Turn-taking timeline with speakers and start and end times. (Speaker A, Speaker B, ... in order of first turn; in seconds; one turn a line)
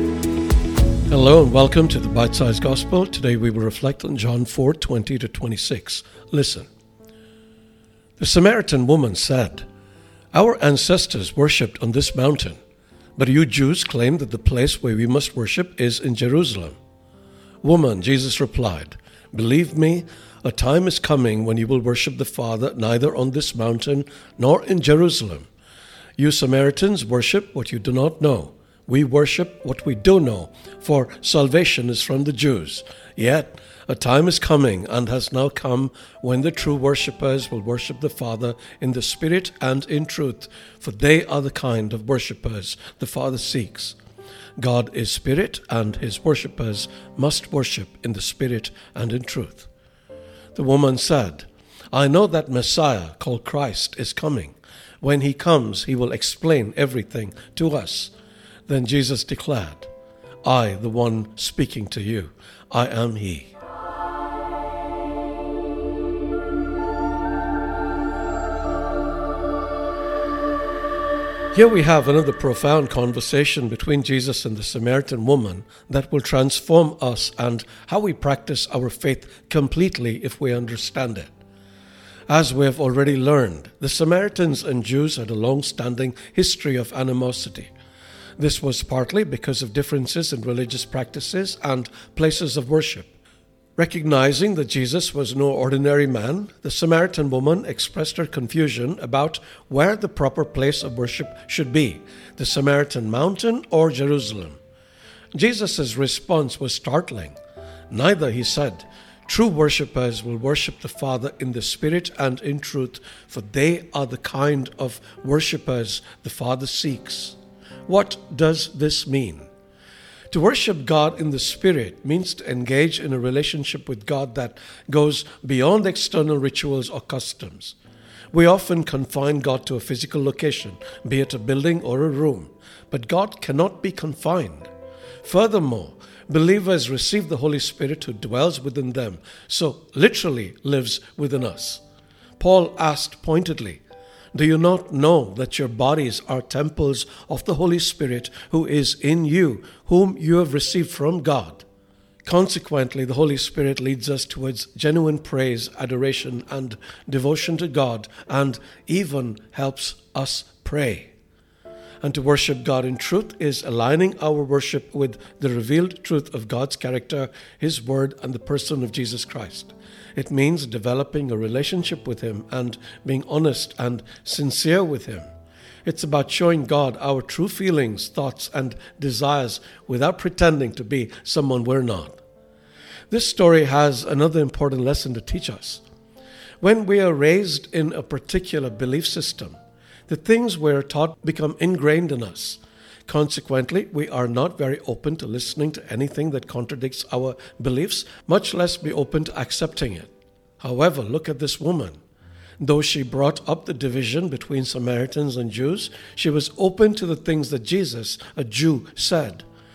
Speaker A: 1.1-6.7
Speaker A: 8.2-9.7
Speaker A: 10.3-12.6
Speaker A: 13.2-16.8
Speaker A: 17.6-25.5
Speaker A: 26.2-44.0
Speaker A: 44.6-49.7
Speaker A: 50.5-58.1
Speaker A: 58.7-59.9
Speaker A: 60.4-63.5
Speaker A: 71.5-81.3
Speaker A: 82.3-87.7
Speaker A: 88.4-93.1
Speaker A: 93.8-104.6
Speaker A: 105.3-107.3
Speaker A: 107.9-119.5
Speaker A: 120.3-127.8
Speaker A: 128.3-134.7
Speaker A: 135.2-141.8
Speaker A: 142.4-143.8
Speaker A: 144.3-151.6
Speaker A: 152.2-161.1
Speaker A: 162.0-175.3
Speaker A: 175.8-182.2
Speaker A: 183.1-185.8
Speaker A: 186.6-189.6
Speaker A: 190.1-202.0
Speaker A: 202.6-209.4